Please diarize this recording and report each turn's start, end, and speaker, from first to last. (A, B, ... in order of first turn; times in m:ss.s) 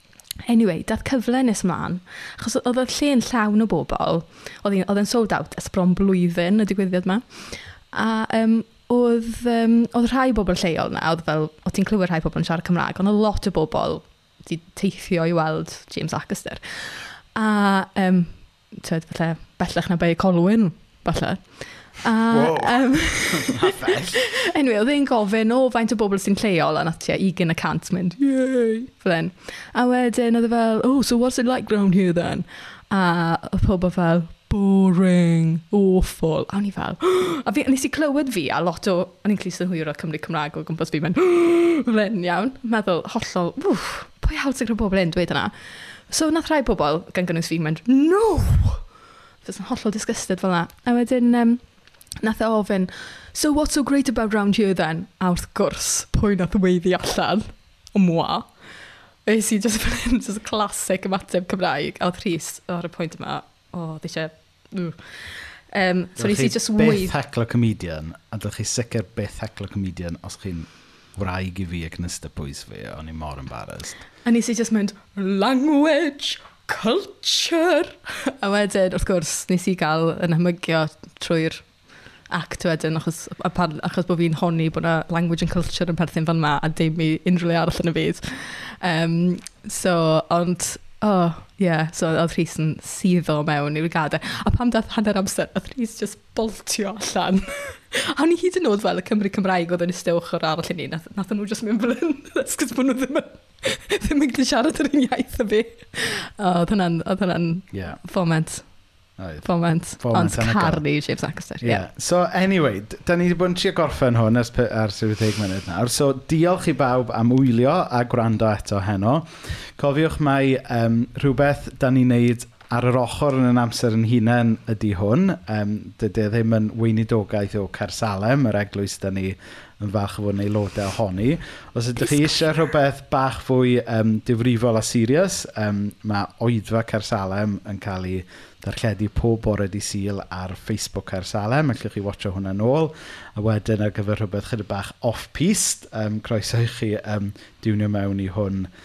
0:00.4-0:48.8 A
0:22.3-0:24.2 B
0:49.4-0:58.6 A
0:59.2-1:07.1 A
1:06.2-1:14.0 B
1:14.2-1:21.7 A
1:22.3-1:48.7 A
1:47.7-1:48.0 B
1:49.2-1:50.8 B
1:49.4-1:51.9 A
1:51.6-2:28.7 B
2:12.1-2:12.4 A